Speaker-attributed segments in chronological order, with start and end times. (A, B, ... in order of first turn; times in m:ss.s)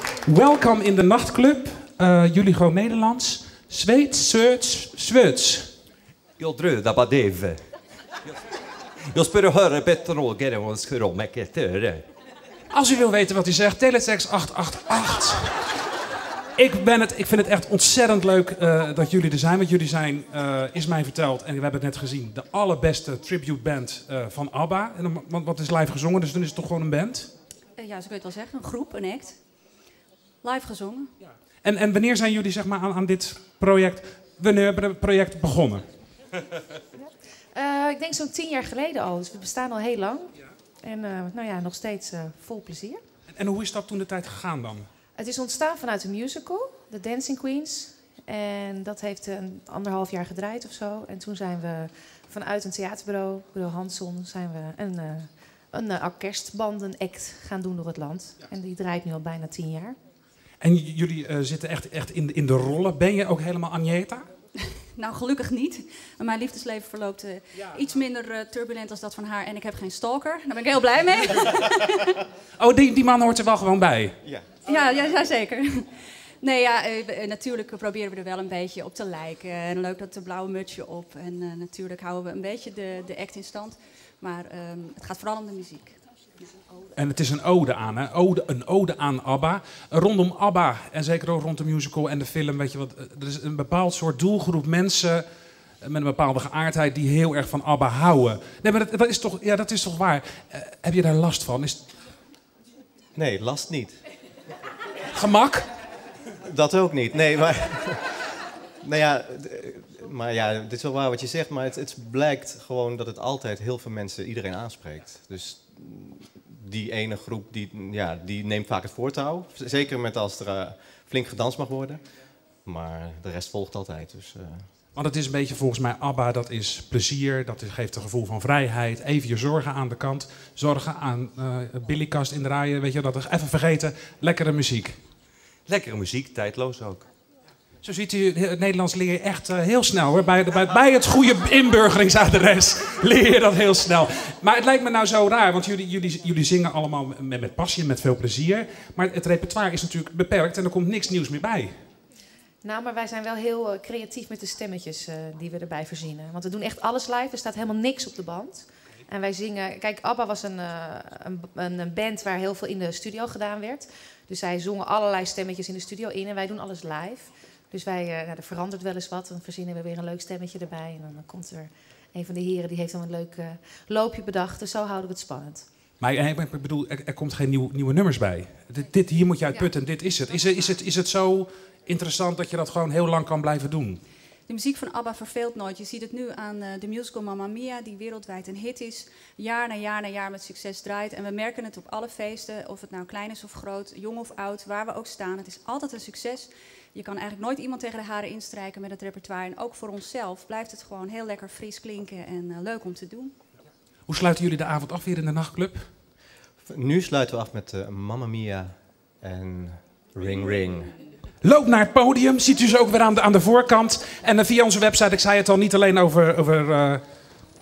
0:00.2-0:05.7 A
0:06.4-0:07.6 B
0:09.0-0:12.0 B
0:12.7-0:15.7 A
0:16.5-0:27.3 A
0:27.8-0:29.4 C
0:30.4-0:31.1 C
0:31.6-0:35.8 A
0:37.0-0:43.0 D
0:43.3-0:44.9 A
0:45.2-1:00.0 D
1:00.6-1:04.2 A
1:04.9-1:12.2 C
1:12.6-1:14.2 A
1:14.2-1:14.5 E
1:14.6-1:26.0 C
1:27.0-1:35.2 A
1:35.8-1:41.8 A
1:43.1-1:44.0 E
1:45.1-1:45.7 A
1:46.4-1:48.2 E
1:48.8-2:02.0 E
2:02.6-2:04.7 E
2:04.9-2:15.0 A
2:15.7-2:17.0 B
2:17.8-2:31.7 A
2:32.6-2:55.7 D
2:56.0-3:04.0 A
3:04.5-3:23.3 C
3:24.1-3:25.9 A
3:26.6-3:30.9 E
3:31.4-3:37.0 A